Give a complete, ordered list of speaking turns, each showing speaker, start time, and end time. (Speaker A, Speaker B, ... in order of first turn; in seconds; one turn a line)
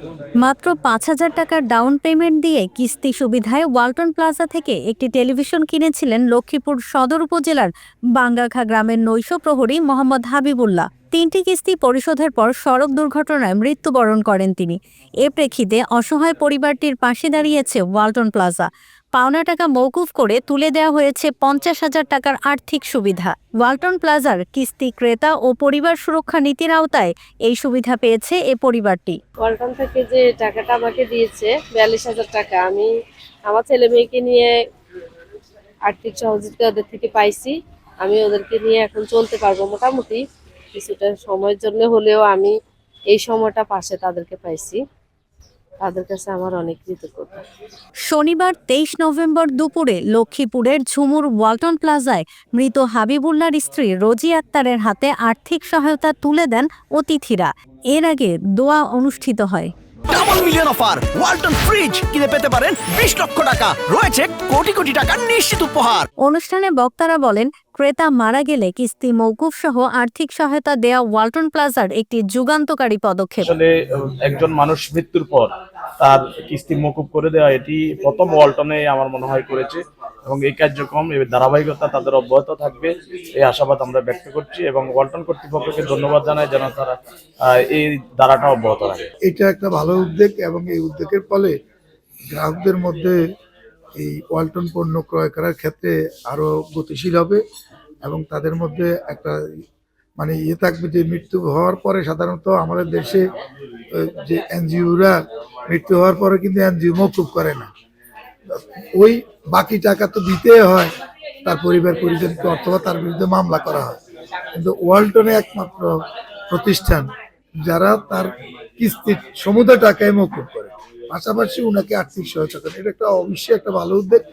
Speaker A: 0.4-29.2
Speaker B: 29.4-32.9
Speaker B: 33.5-34.6
Speaker B: 35.9-40.2
Speaker B: 40.7-42.5
Speaker B: 43.1-44.8
Speaker B: 45.8-47.4
Speaker A: 48.1-59.7
Speaker C: 60.1-66.1
Speaker A: 66.2-73.5
Speaker D: 73.4-87.0
Speaker D: 87.5-89.1
Speaker E: 89.2-91.5
Speaker E: 92.3-93.2
Speaker E: 94.0-97.4
Speaker E: 98.0-99.3
Speaker E: 100.2-103.2
Speaker E: 103.9-107.7
Speaker E: 108.5-110.9
Speaker E: 111.4-114.0
Speaker E: 114.5-115.9
Speaker E: 116.5-117.1
Speaker E: 117.6-124.2